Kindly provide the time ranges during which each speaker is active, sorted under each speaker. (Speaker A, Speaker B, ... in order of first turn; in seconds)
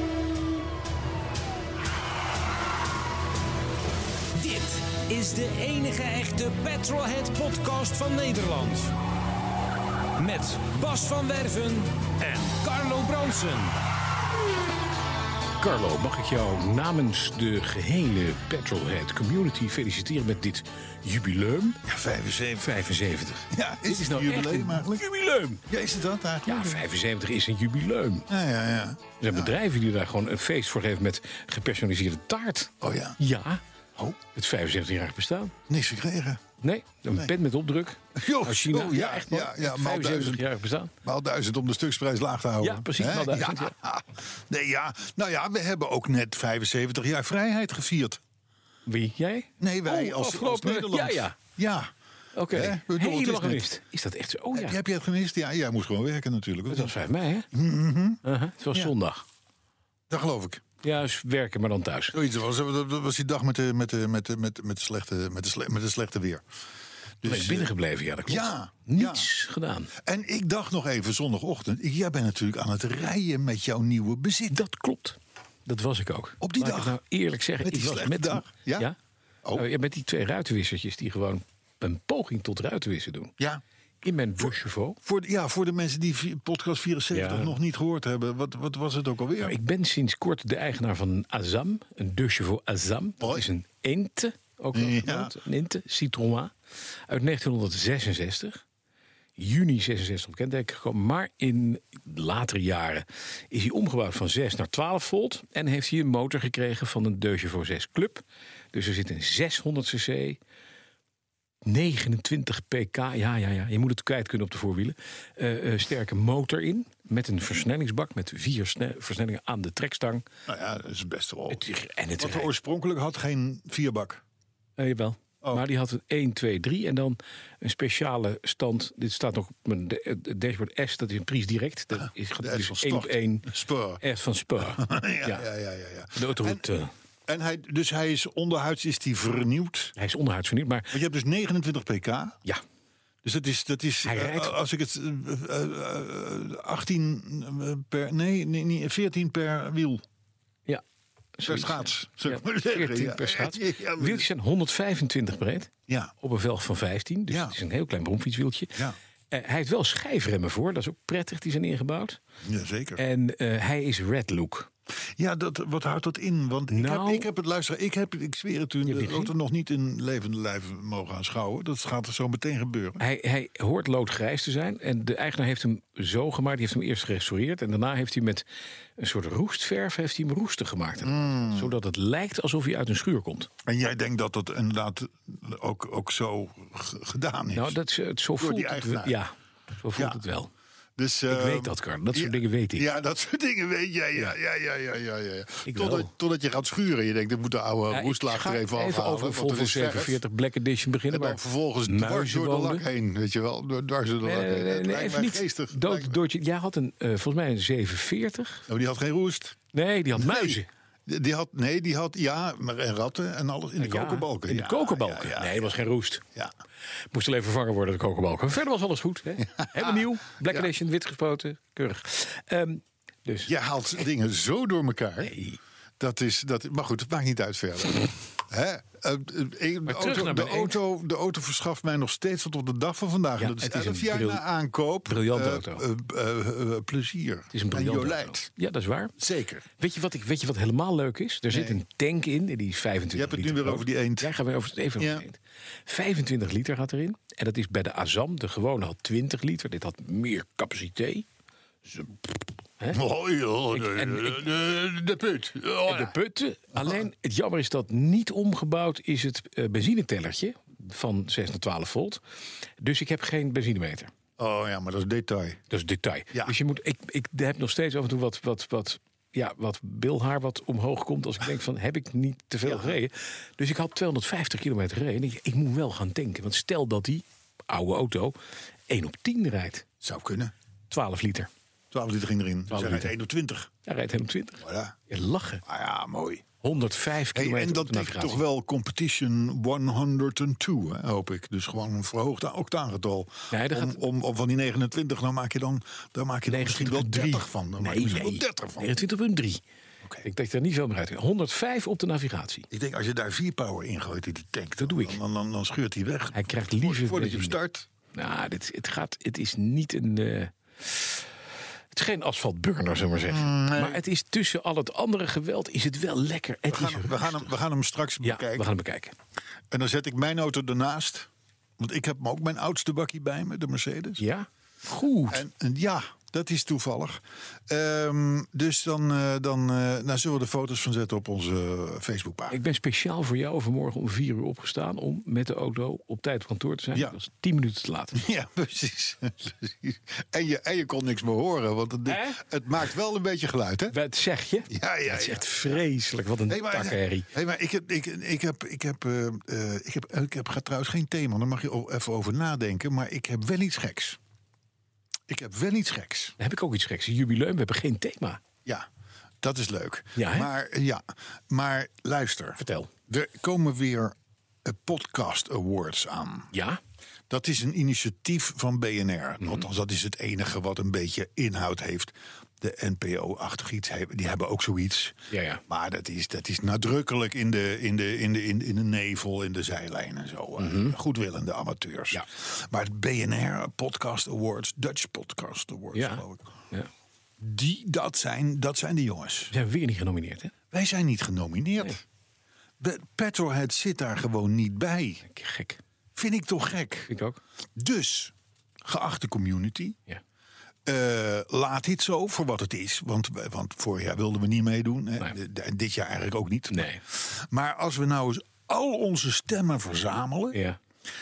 Speaker A: 4.3-8.9, 10.2-13.8
Speaker B: 15.6-21.8, 22.6-25.6, 26.4-28.3, 29.2-33.6, 34.3-35.5, 36.6-40.9, 42.6-43.7, 48.9-51.4, 52.3-54.8, 56.7-57.5, 58.2-59.2, 60.8-62.2, 67.2-69.9, 74.5-79.0, 79.5-83.3, 84.0-85.0, 87.1-87.6, 89.4-96.5, 97.1-98.6, 99.4-110.4, 111.7-120.3, 121.5-122.5, 124.8-133.5, 134.0-135.5, 136.1-136.9, 140.0-140.9, 144.0-144.6, 151.4-158.8, 159.3-162.2, 163.0-164.7, 166.7-167.3, 168.8-169.3, 173.0-178.4, 179.0-183.5, 187.5-190.5, 191.3-192.9, 195.7-196.1, 197.9-202.8, 204.2-208.7, 209.7-210.7, 213.8-216.2, 217.1-223.5, 225.2-225.6, 229.8-230.8, 233.4-234.4, 235.1-235.8, 237.5-239.2, 239.8-251.3, 253.7-254.5, 255.8-262.2, 262.8-264.1, 265.7-278.4, 278.9-279.9, 280.9-281.5, 282.7-283.1, 283.9-285.6, 286.6-288.4, 293.5-294.0, 296.5-299.6, 300.2-302.7, 304.9-305.2, 306.4-307.6, 308.1-311.3, 311.9-317.5, 318.2-319.1, 324.2-325.5, 332.5-338.2, 342.1-342.4, 343.9-347.3, 356.4-358.4, 360.2-360.5, 362.6-362.9, 366.5-366.8, 375.3-375.6, 380.6-380.9, 385.9-386.9, 389.5-390.5, 395.2-395.8, 397.1-397.4, 406.7-407.0, 410.5-410.8
Speaker C: 21.9-22.8, 23.5-25.0, 25.7-26.9, 28.3-29.6, 32.8-33.2, 35.7-36.4, 38.1-40.5, 41.0-48.2, 49.6-51.9, 52.5-53.7, 54.5-57.0, 57.5-58.2, 60.1-60.6, 62.1-66.4, 67.2-67.7, 68.3-69.3, 70.0-74.6, 76.4-77.0, 77.6-78.9, 85.0-89.5, 93.2-93.5, 94.7-95.3, 120.5-121.7, 122.2-124.2, 132.4-134.0, 134.6-136.7, 137.3-139.9, 140.9-142.4, 143.2-150.0, 151.4-154.3, 157.3-157.6, 162.4-163.0, 165.2-173.0, 181.0-181.7, 183.7-187.8, 188.4-189.2, 189.9-190.2, 191.0-200.2, 201.1-206.2, 208.7-209.6, 210.2-215.7, 219.5-220.7, 223.5-225.3, 226.0-238.5, 239.2-239.7, 241.5-241.8, 243.1-244.3, 245.0-245.2, 252.9-256.1, 256.8-257.0, 264.4-265.6, 272.6-273.0, 280.0-280.5, 281.9-283.7, 284.6-285.0, 285.6-286.5, 287.3-298.9, 302.7-307.9, 313.3-314.0, 316.7-318.7, 319.7-324.2, 325.3-332.6, 338.1-344.0, 344.7-345.8, 346.5-354.2, 355.3-356.4, 359.4-366.5, 367.3-375.2, 375.7-386.5, 387.4-389.5, 390.7-392.0, 392.8-395.2, 396.1-397.1, 397.8-398.3, 398.9-400.0, 400.9-410.6